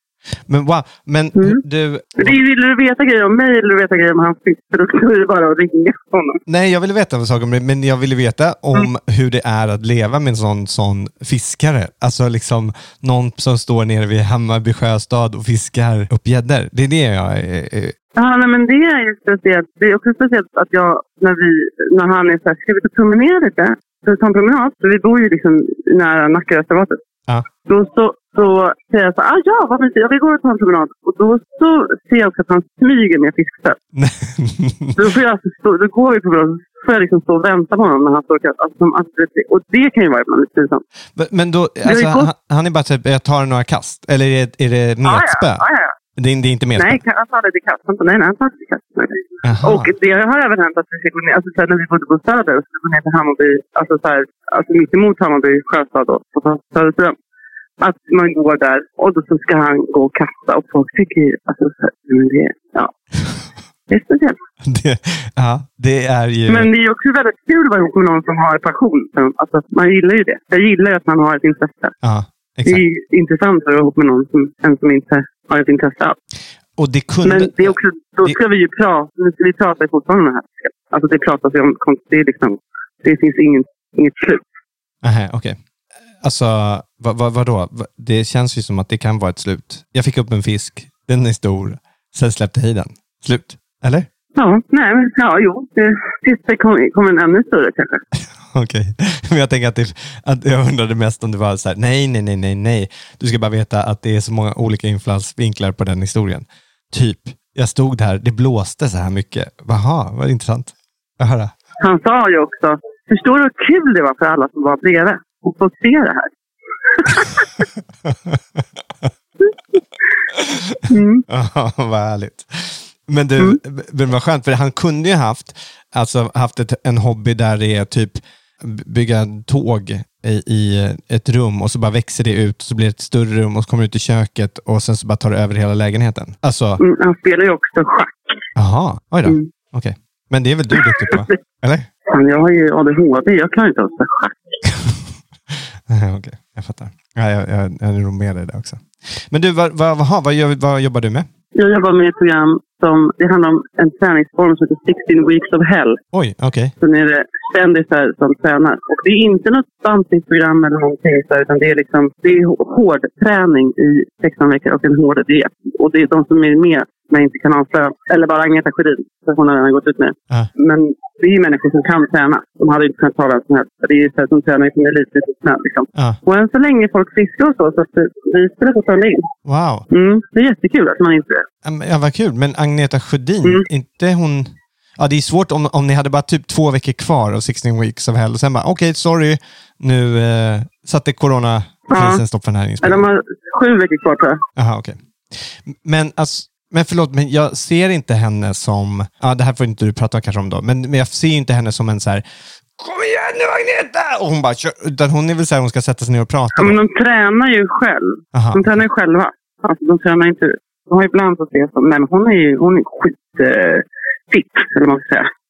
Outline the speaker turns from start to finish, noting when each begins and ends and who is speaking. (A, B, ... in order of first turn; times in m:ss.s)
0:00.5-0:02.4 A
0:01.4-0:01.6 B
0:02.2-0:06.4 B
0:06.5-0:18.0 A
0:18.2-0:27.0 B
0:27.7-0:33.8 B
0:33.9-0:35.1 A
0:35.0-0:40.8 B
0:41.2-0:47.0 A
0:41.8-0:42.3 B
0:45.0-0:45.9 B
0:46.8-0:57.2 B
0:49.4-0:49.9 A
0:57.8-1:02.9 B
1:03.9-1:04.4 B
1:04.6-1:06.7 A
1:06.5-1:12.0 B
1:12.0-1:12.8 A
1:12.6-1:16.2 B
1:16.8-1:18.4 A
1:17.2-1:24.4 B
1:25.0-1:25.6 A
1:26.2-1:34.1 A
1:34.4-1:38.0 B
1:38.2-1:51.5 A
1:51.8-1:56.3 B
1:56.9-1:57.5 B
1:58.0-1:59.1 A
2:00.3-2:16.8 A
2:00.9-2:01.2 B
2:16.8-2:18.1 B
2:18.6-2:21.9 A
2:20.8-2:21.3 B
2:22.1-2:24.4 B
2:24.6-2:31.3 A
2:31.6-2:36.0 B
2:36.1-2:36.8 A
2:36.8-2:59.3 B
2:59.4-2:59.9 A
2:59.9-3:01.4 B
3:01.6-3:13.1 A
3:11.9-3:12.2 B
3:12.8-3:14.4 B
3:14.6-3:22.2 A
3:22.8-3:26.8 A
3:26.6-3:35.3 B
3:28.3-3:28.8 A